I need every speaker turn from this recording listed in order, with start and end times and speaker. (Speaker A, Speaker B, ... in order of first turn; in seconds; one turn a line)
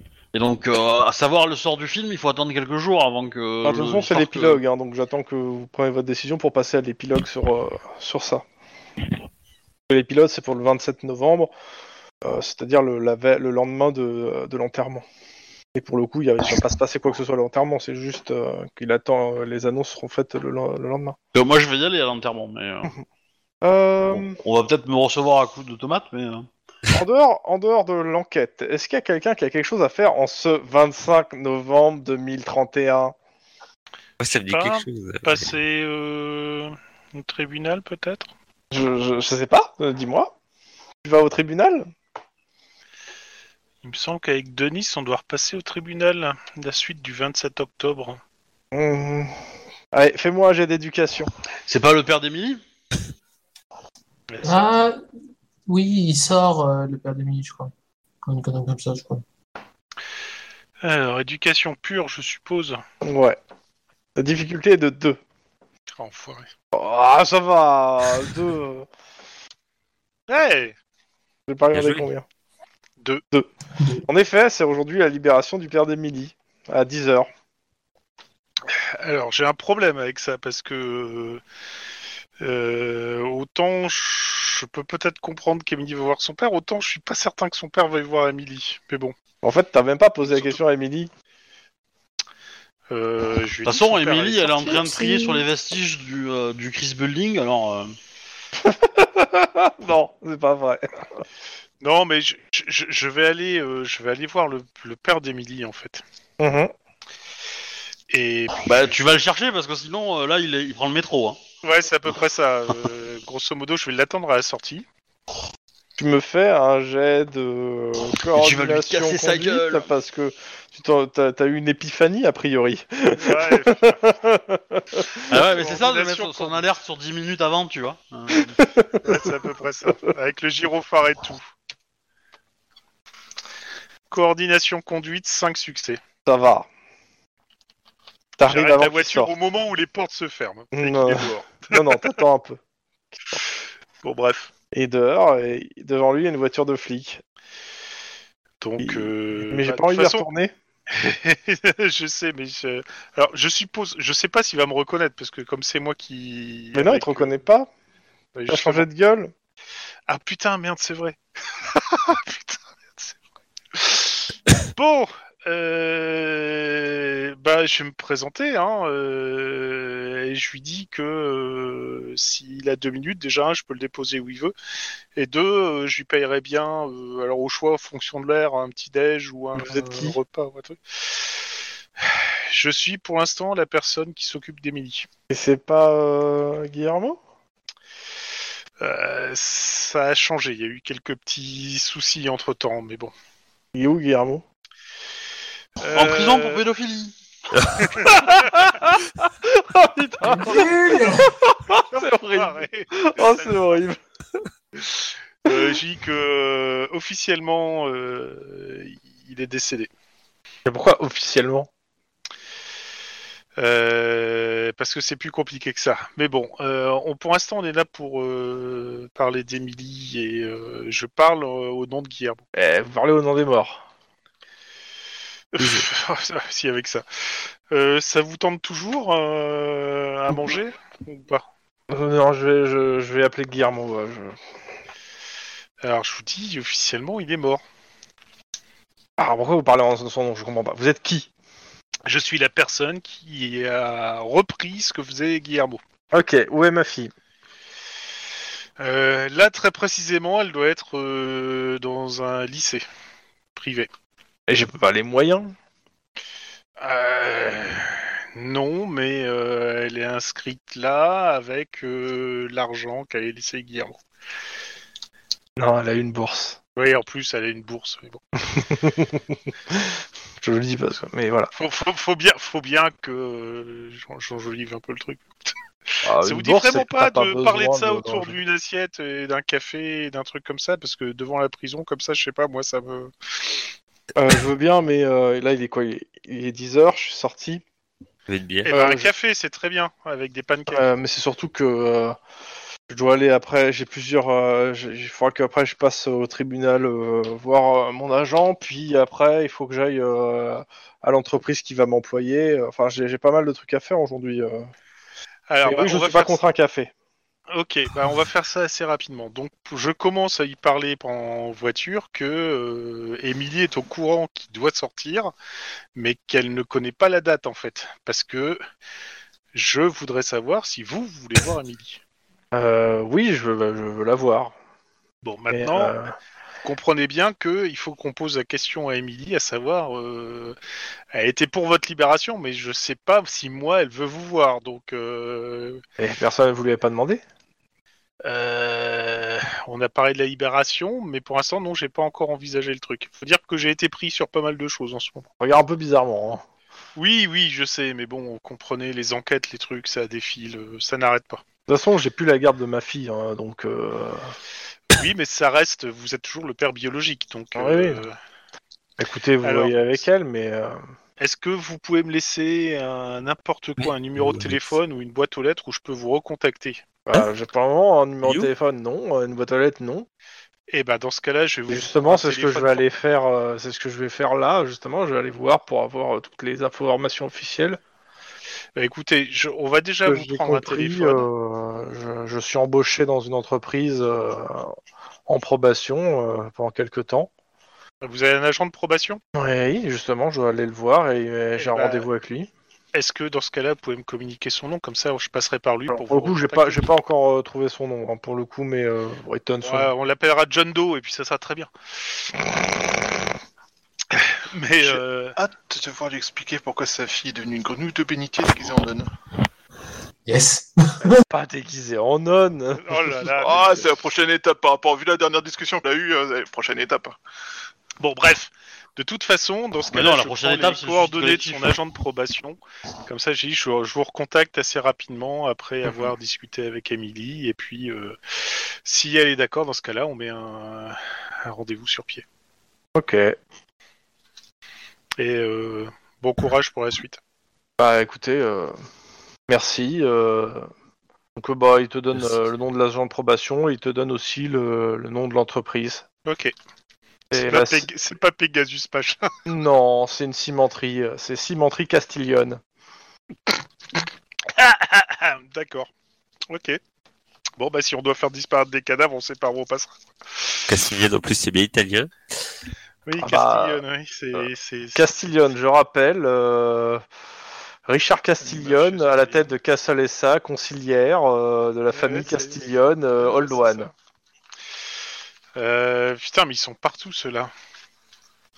Speaker A: 0.3-4.6
Speaker B: 3.6-8.4
Speaker B: 9.9-11.5
Speaker B: 12.2-15.0
Speaker B: 15.8-21.2
Speaker A: 21.3-22.9
Speaker B: 23.6-24.4
Speaker A: 24.1-26.5
Speaker B: 26.9-33.1
Speaker C: 34.2-35.5
Speaker D: 34.5-38.3
Speaker B: 38.7-40.3
Speaker B: 41.0-41.9
Speaker D: 43.8-48.2
Speaker B: 48.7-49.3
Speaker B: 49.9-51.3
Speaker A: 51.7-52.6
Speaker D: 54.3-54.6
Speaker E: 54.4-55.0
Speaker E: 55.7-57.7
Speaker E: 58.2-59.2
Speaker D: 60.8-62.8
Speaker B: 63.0-63.4
Speaker B: 64.2-65.2
Speaker D: 66.0-66.5
Speaker B: 66.7-68.9
Speaker D: 70.3-70.8
Speaker B: 71.5-72.2
Speaker C: 71.7-72.1
Speaker B: 73.3-77.3
Speaker D: 78.7-81.4
Speaker D: 82.4-89.1
Speaker B: 89.4-91.1
Speaker D: 90.3-90.6
Speaker D: 92.9-94.8
Speaker A: 93.7-98.0
Speaker B: 98.6-101.0
Speaker D: 101.8-106.0
Speaker B: 106.4-106.7
Speaker D: 108.1-109.2
Speaker A: 108.7-111.4
Speaker D: 111.6-114.8
Speaker B: 116.0-125.3
Speaker A: 118.3-119.9
Speaker D: 123.2-124.0
Speaker A: 125.3-128.6
Speaker D: 125.3-126.7
Speaker B: 128.6-129.3
Speaker D: 129.0-131.5
Speaker D: 134.1-136.0
Speaker B: 136.3-136.7
Speaker B: 138.4-139.3
Speaker D: 138.4-142.2
Speaker B: 140.7-142.6
Speaker B: 143.1-143.4
Speaker D: 144.0-144.5
Speaker B: 144.7-147.2
Speaker D: 148.6-150.2
Speaker B: 148.8-150.5
Speaker D: 150.9-157.4
Speaker B: 156.7-157.7
Speaker D: 158.3-158.9
Speaker B: 158.5-159.3
Speaker D: 160.1-161.2
Speaker D: 161.8-163.2
Speaker D: 163.7-174.5
Speaker D: 175.2-181.3
Speaker B: 179.6-180.2
Speaker D: 182.0-185.1
Speaker B: 185.3-187.2
Speaker D: 188.8-193.1
Speaker B: 193.7-194.4
Speaker D: 195.8-196.6
Speaker A: 195.8-197.1
Speaker D: 197.8-198.3
Speaker B: 197.9-204.0
Speaker E: 200.3-201.3
Speaker D: 200.6-201.2
Speaker D: 201.8-203.8
Speaker D: 205.4-209.9
Speaker B: 205.5-205.8
Speaker B: 210.7-211.7
Speaker D: 213.6-222.4
Speaker B: 222.6-223.8
Speaker D: 225.5-231.4
Speaker B: 231.9-234.4
Speaker D: 235.8-237.6
Speaker B: 239.2-241.3
Speaker D: 242.1-245.8
Speaker B: 246.1-247.1
Speaker D: 248.8-252.8
Speaker D: 253.6-253.9
Speaker B: 254.5-255.6
Speaker D: 256.8-264.0
Speaker B: 265.6-266.6
Speaker D: 266.8-268.2
Speaker B: 268.4-271.5
Speaker D: 271.6-283.1
Speaker B: 276.0-278.4
Speaker B: 284.2-287.6
Speaker C: 288.3-288.7
Speaker D: 288.6-290.9
Speaker B: 288.7-289.1
Speaker B: 290.7-292.2
Speaker B: 292.9-304.7
Speaker D: 305.5-306.4
Speaker B: 305.6-306.9
Speaker D: 307.5-315.3
Speaker D: 315.9-318.6
Speaker D: 319.5-322.0
Speaker B: 322.5-324.5
Speaker D: 325.2-325.9
Speaker B: 325.5-326.1
Speaker D: 326.6-330.6
Speaker D: 331.1-335.8
Speaker B: 336.0-337.2
Speaker D: 338.2-345.3
Speaker B: 345.4-346.4
Speaker D: 347.0-351.4
Speaker B: 351.7-354.3
Speaker D: 354.9-358.2
Speaker B: 357.6-358.0
Speaker B: 359.0-360.8
Speaker D: 359.4-360.0
Speaker D: 361.2-366.8
Speaker C: 363.8-364.8
Speaker B: 367.1-370.1
Speaker C: 368.2-368.5
Speaker D: 370.7-372.8
Speaker B: 371.7-377.8
Speaker D: 378.8-381.3
Speaker B: 380.1-384.8
Speaker B: 385.3-387.3
Speaker D: 388.0-389.2
Speaker B: 389.4-392.5
Speaker D: 391.6-392.1
Speaker D: 392.9-396.9
Speaker B: 395.9-399.9
Speaker D: 399.6-401.7
Speaker D: 404.1-405.4
Speaker F: 405.4-409.1
Speaker E: 410.3-411.2
Speaker B: 411.3-413.8
Speaker D: 412.8-413.7
Speaker F: 413.4-417.2
Speaker D: 418.0-432.2
Speaker A: 419.9-421.8
Speaker B: 433.0-433.4
Speaker D: 435.2-437.2
Speaker B: 437.8-438.7
Speaker B: 439.5-440.7
Speaker B: 441.4-446.0
Speaker D: 446.3-446.5
Speaker B: 447.3-447.9
Speaker D: 447.3-449.3
Speaker B: 449.5-452.6
Speaker D: 454.5-455.9
Speaker D: 456.5-456.8
Speaker D: 457.6-460.6
Speaker C: 460.7-462.1
Speaker D: 463.1-465.2
Speaker B: 463.2-463.8
Speaker B: 464.9-467.0
Speaker B: 467.9-473.9
Speaker D: 468.4-469.5
Speaker D: 471.9-472.6
Speaker D: 473.2-473.9
Speaker D: 475.6-477.5